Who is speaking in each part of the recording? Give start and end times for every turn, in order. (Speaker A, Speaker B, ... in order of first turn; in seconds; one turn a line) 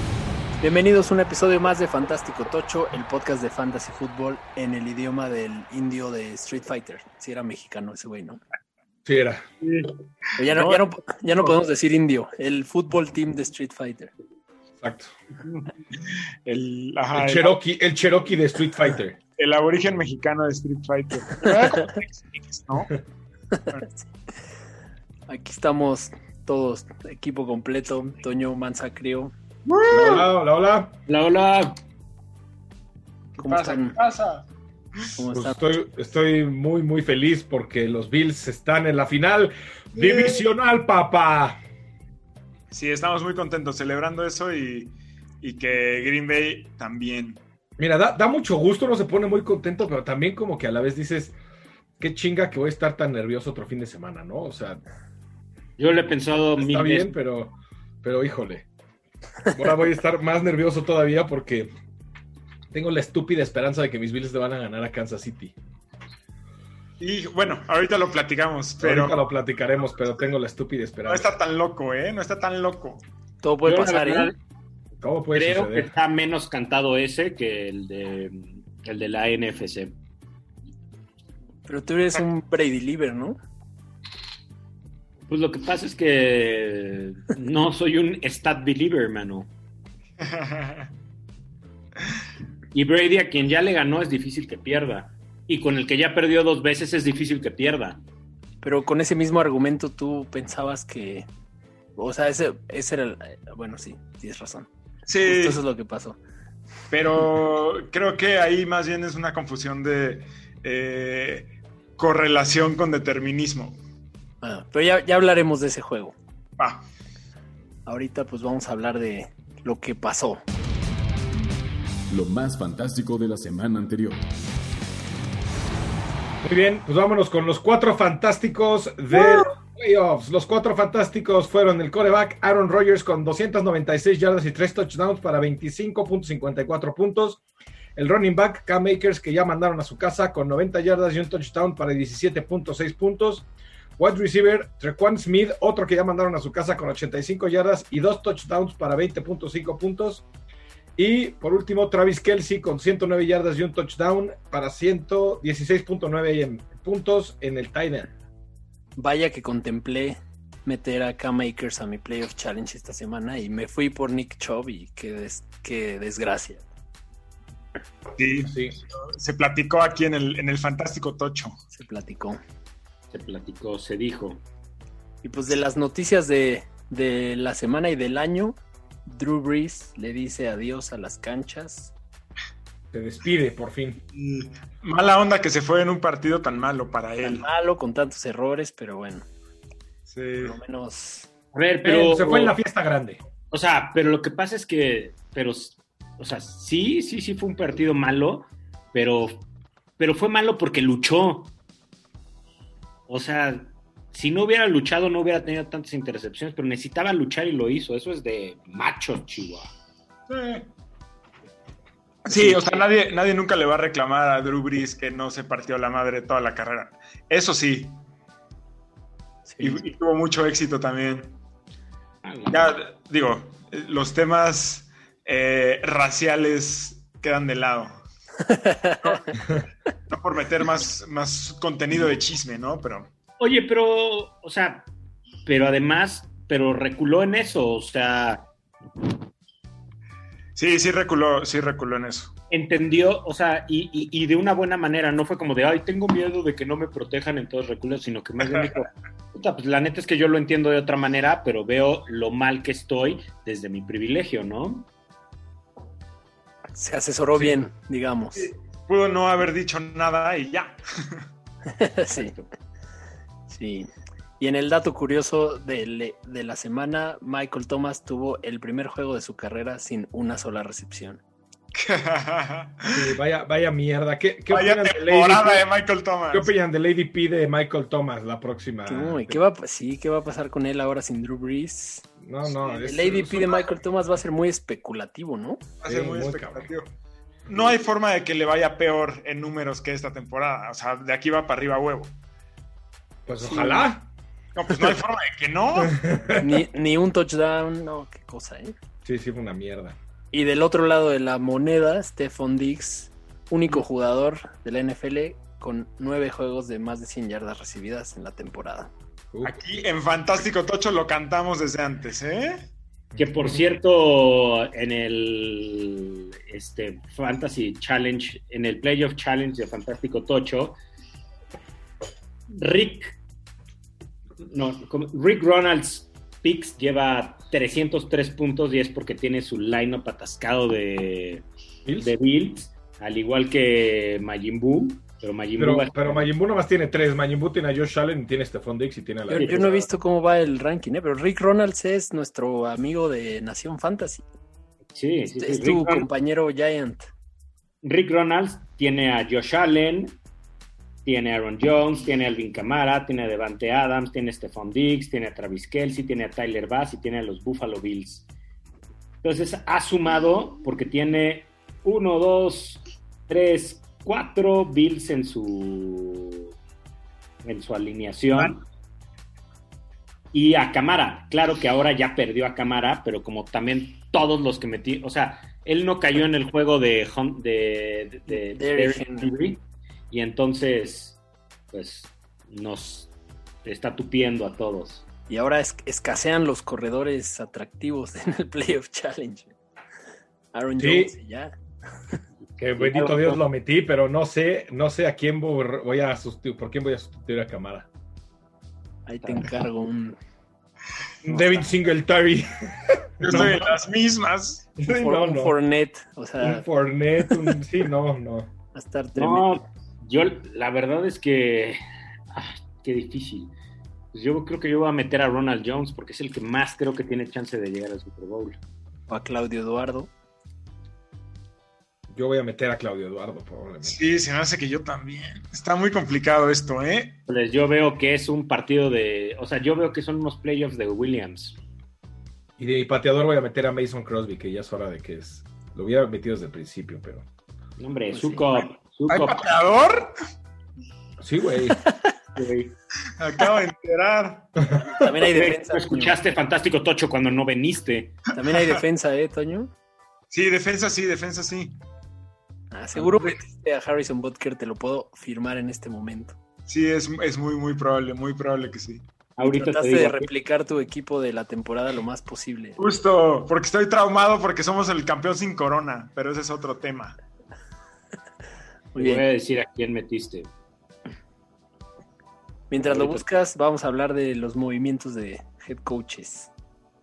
Speaker A: 0.6-8.4
Speaker B: 9.1-9.4
Speaker C: 9.6-10.8
Speaker A: 10.4-14.1
Speaker B: 14.8-15.1
Speaker C: 16.0-17.6
Speaker B: 17.1-19.2
Speaker C: 19.4-22.9
Speaker A: 21.4-21.8
Speaker A: 25.3-29.3
Speaker C: 29.7-30.3
Speaker B: 29.9-30.9
Speaker D: 31.1-31.8
Speaker C: 33.4-34.5
Speaker A: 33.4-34.0
Speaker A: 35.2-35.7
Speaker B: 35.3-41.6
Speaker C: 40.0-40.4
Speaker C: 42.7-47.4
Speaker B: 47.8-51.4
Speaker B: 52.0-54.8
Speaker D: 55.8-57.1
Speaker B: 56.6-58.7
Speaker B: 59.5-61.7
Speaker B: 62.7-65.5
Speaker C: 67.0-69.2
Speaker B: 68.8-71.3
Speaker C: 71.1-73.0
Speaker A: 73.4-74.3
Speaker D: 73.7-74.4
Speaker B: 75.0-75.9
Speaker D: 75.3-79.9
Speaker A: 81.7-83.4
Speaker D: 85.3-89.5
Speaker C: 90.2-90.9
Speaker D: 92.7-98.0
Speaker A: 98.6-101.3
Speaker A: 102.0-104.7
Speaker C: 105.1-105.6
Speaker A: 105.2-106.2
Speaker C: 106.9-113.8
Speaker A: 114.4-116.2
Speaker C: 116.6-116.8
Speaker A: 117.9-120.4
Speaker E: 122.1-124.3
Speaker B: 126.4-137.4
Speaker B: 138.0-143.5
Speaker B: 144.0-150.2
Speaker B: 151.0-158.1
Speaker A: 159.0-166.7
Speaker C: 168.2-171.6
Speaker A: 171.7-172.4
Speaker D: 173.1-174.4
Speaker A: 175.2-181.9
Speaker B: 182.9-184.0
Speaker C: 184.1-187.5
Speaker A: 187.2-189.3
Speaker C: 190.1-190.6
Speaker A: 190.4-191.3
Speaker D: 191.5-192.6
Speaker B: 191.8-193.2
Speaker D: 193.5-199.5
Speaker D: 200.0-201.5
Speaker D: 203.1-209.7
Speaker C: 210.3-210.7
Speaker C: 212.2-218.0
Speaker D: 212.3-212.8
Speaker A: 219.5-219.8
Speaker C: 219.6-221.4
Speaker D: 222.2-222.8
Speaker C: 222.5-228.0
Speaker A: 228.5-229.2
Speaker C: 229.0-229.6
Speaker C: 230.1-233.1
Speaker D: 233.4-234.9
Speaker D: 235.5-238.5
Speaker C: 240.6-242.3
Speaker D: 242.5-254.9
Speaker A: 256.8-258.5
Speaker C: 258.4-261.2
Speaker A: 261.7-262.3
Speaker D: 262.1-262.5
Speaker A: 263.5-271.2
Speaker C: 271.8-273.1
Speaker B: 272.9-275.6
Speaker C: 274.5-276.5
Speaker B: 276.3-279.4
Speaker A: 278.9-282.1
Speaker B: 282.2-283.6
Speaker A: 282.8-285.6
Speaker C: 285.8-286.9
Speaker B: 285.8-286.7
Speaker B: 287.5-287.8
Speaker C: 287.5-292.1
Speaker B: 293.3-294.1
Speaker A: 293.4-293.9
Speaker C: 294.6-296.0
Speaker B: 294.7-295.0
Speaker B: 295.8-296.6
Speaker A: 296.4-298.7
Speaker B: 299.1-300.0
Speaker A: 300.3-308.9
Speaker B: 309.3-309.6
Speaker C: 309.4-312.6
Speaker D: 313.2-320.8
Speaker D: 322.5-323.2
Speaker D: 324.4-331.5
Speaker B: 331.9-332.1
Speaker D: 332.0-336.3
Speaker B: 335.6-339.7
Speaker A: 339.3-344.2
Speaker D: 339.3-339.9
Speaker D: 344.9-346.1
Speaker A: 345.3-347.1
Speaker D: 347.8-350.2
Speaker D: 351.1-358.3
Speaker D: 359.2-366.5
Speaker D: 367.4-368.6
Speaker D: 370.3-381.2
Speaker A: 378.3-379.3
Speaker D: 381.7-383.1
Speaker D: 383.6-385.1
Speaker A: 385.3-389.5
Speaker A: 390.5-391.6
Speaker B: 390.8-391.1
Speaker D: 392.6-393.4
Speaker B: 392.6-397.9
Speaker A: 399.1-400.2
Speaker D: 399.2-399.5
Speaker B: 401.2-403.7
Speaker C: 403.2-404.7
Speaker B: 404.8-405.6
Speaker A: 404.9-406.6
Speaker B: 406.4-408.5
Speaker A: 408.8-409.6
Speaker D: 409.2-411.8
Speaker D: 412.3-413.5
Speaker D: 414.1-418.6
Speaker A: 419.1-420.1
Speaker B: 422.1-424.0
Speaker C: 423.8-427.2
Speaker D: 427.3-431.6
Speaker B: 432.6-437.2
Speaker D: 437.8-439.4
Speaker A: 438.1-438.4
Speaker C: 439.1-440.1
Speaker B: 441.2-441.8
Speaker A: 441.8-442.1
Speaker D: 442.4-442.7
Speaker C: 443.2-444.5
Speaker A: 444.8-446.2
Speaker D: 445.1-448.3
Speaker A: 448.3-449.7
Speaker C: 450.3-451.8
Speaker A: 452.7-456.4
Speaker C: 453.0-453.4
Speaker C: 456.7-459.0
Speaker D: 459.4-460.3
Speaker A: 459.4-462.8
Speaker C: 462.8-467.2
Speaker A: 468.9-469.2
Speaker D: 469.0-470.5
Speaker A: 472.7-476.5
Speaker D: 472.8-473.2